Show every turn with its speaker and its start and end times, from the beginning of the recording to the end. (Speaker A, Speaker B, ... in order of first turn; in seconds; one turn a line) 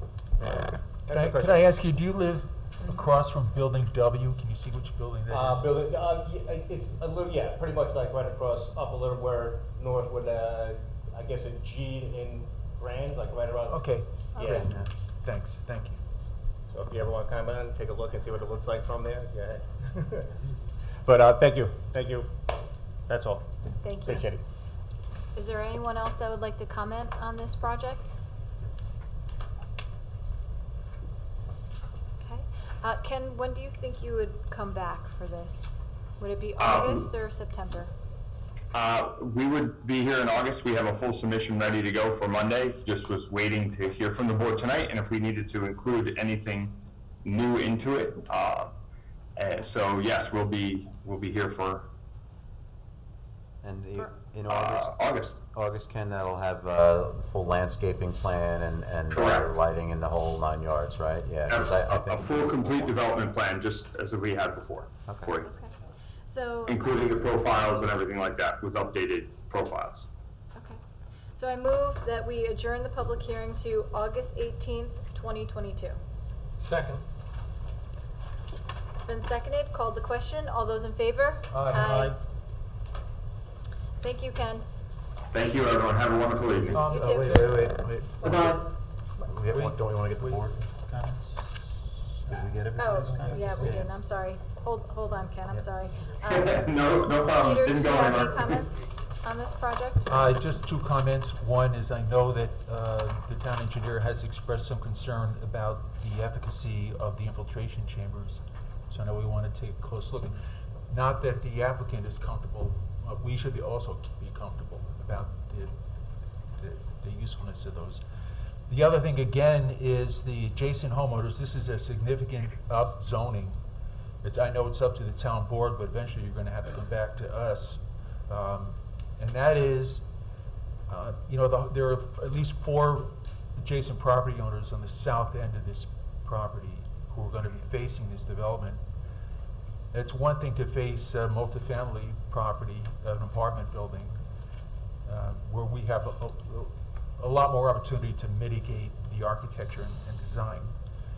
Speaker A: 0.5-1.6
Speaker B: 1.1-5.8
Speaker A: 5.3-14.7
Speaker B: 13.7-16.0
Speaker C: 14.3-14.7
Speaker A: 16.7-20.3
Speaker A: 21.0-22.3
Speaker A: 23.1-23.5
Speaker C: 23.8-24.3
Speaker A: 24.0-24.4
Speaker C: 25.3-28.1
Speaker C: 32.2-37.9
Speaker D: 36.6-37.1
Speaker D: 38.7-48.7
Speaker D: 49.4-51.9
Speaker E: 53.6-63.0
Speaker D: 54.5-55.4
Speaker D: 59.1-59.5
Speaker D: 61.5-65.5
Speaker E: 65.1-65.3
Speaker C: 65.4-65.7
Speaker C: 66.2-66.8
Speaker D: 66.7-70.1
Speaker C: 71.3-76.0
Speaker C: 78.9-82.2
Speaker B: 81.5-81.9
Speaker C: 84.0-84.7
Speaker D: 85.3-86.8
Speaker B: 86.7-87.6
Speaker E: 86.8-91.6
Speaker C: 86.8-87.5
Speaker B: 89.5-90.5
Speaker E: 92.2-93.9
Speaker C: 92.8-96.7
Speaker D: 96.3-98.6
Speaker C: 97.2-100.1
Speaker B: 100.0-110.3
Speaker B: 110.9-115.7
Speaker B: 116.6-118.0
Speaker B: 118.7-123.6
Speaker B: 124.2-130.1
Speaker B: 130.9-138.8
Speaker B: 139.9-144.2
Speaker B: 145.1-150.7